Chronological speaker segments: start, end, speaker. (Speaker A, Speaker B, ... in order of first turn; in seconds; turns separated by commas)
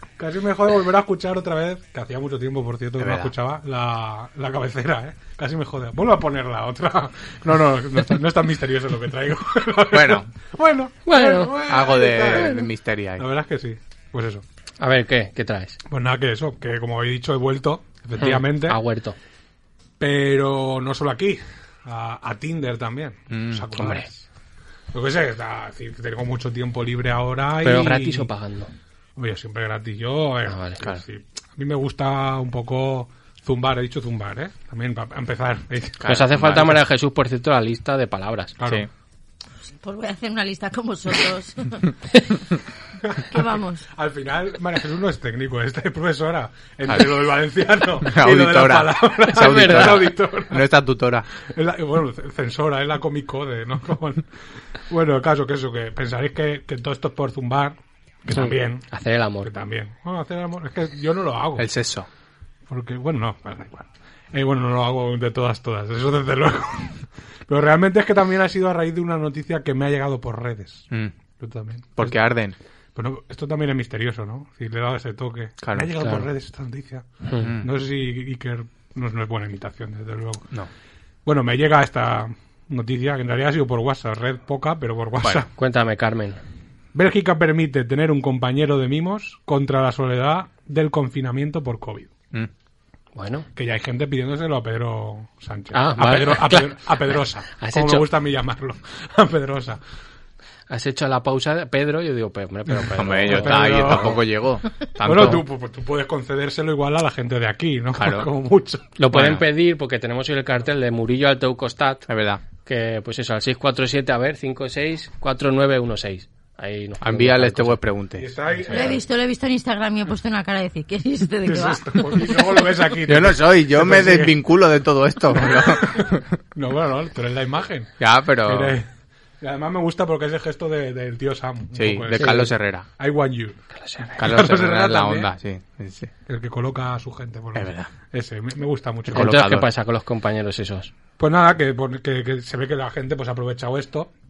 Speaker A: 0.2-12.7, Speaker B: 3.0-3.3, Speaker B: 9.9-10.3, Speaker C: 11.1-11.5, Speaker B: 11.6-13.2, Speaker A: 13.2-14.4, Speaker C: 14.8-15.8, Speaker A: 15.9-18.8, Speaker C: 18.2-19.1, Speaker A: 20.0-24.2, Speaker B: 23.3-24.0, Speaker C: 23.8-24.1, Speaker A: 24.9-28.3, Speaker C: 27.6-28.7, Speaker A: 29.2-36.1, Speaker C: 30.5-30.8, Speaker B: 36.0-36.8, Speaker C: 36.1-38.5, Speaker A: 38.6-38.9, Speaker D: 39.8-41.9, Speaker A: 43.1-43.4, Speaker D: 43.3-43.9, Speaker A: 44.0-50.6, Speaker B: 46.9-47.1, Speaker B: 48.0-51.2, Speaker C: 49.4-50.1, Speaker A: 51.5-54.3, Speaker A: 54.9-58.9, Speaker C: 58.3-59.5, Speaker A: 59.4-61.7, Speaker B: 61.6-62.1, Speaker A: 62.7-70.9, Speaker A: 71.4-72.2, Speaker B: 72.0-72.6, Speaker A: 73.0-80.5, Speaker B: 75.6-76.0, Speaker C: 76.0-76.2, Speaker C: 77.2-77.5, Speaker B: 77.4-77.7, Speaker A: 81.2-85.5, Speaker B: 85.2-85.5, Speaker C: 85.5-86.4, Speaker A: 86.9-92.1, Speaker C: 93.1-93.5, Speaker A: 93.5-99.8, Speaker C: 95.7-98.1, Speaker C: 100.7-104.2, Speaker B: 102.9-105.5, Speaker A: 103.3-104.2, Speaker A: 105.0-109.0, Speaker B: 107.9-108.3, Speaker C: 109.0-112.1, Speaker B: 109.1-109.4, Speaker B: 112.1-112.4, Speaker C: 112.6-117.8, Speaker B: 117.0-118.3, Speaker A: 118.2-119.0, Speaker D: 118.7-122.5, Speaker A: 121.4-124.4, Speaker B: 123.0-126.2, Speaker A: 125.3-128.9, Speaker B: 128.0-128.8, Speaker A: 129.4-135.3, Speaker B: 131.8-132.9, Speaker C: 133.8-134.2, Speaker B: 134.2-136.1, Speaker A: 136.3-139.4, Speaker B: 137.5-137.9, Speaker B: 139.1-139.7, Speaker C: 139.1-140.9, Speaker A: 141.2-144.1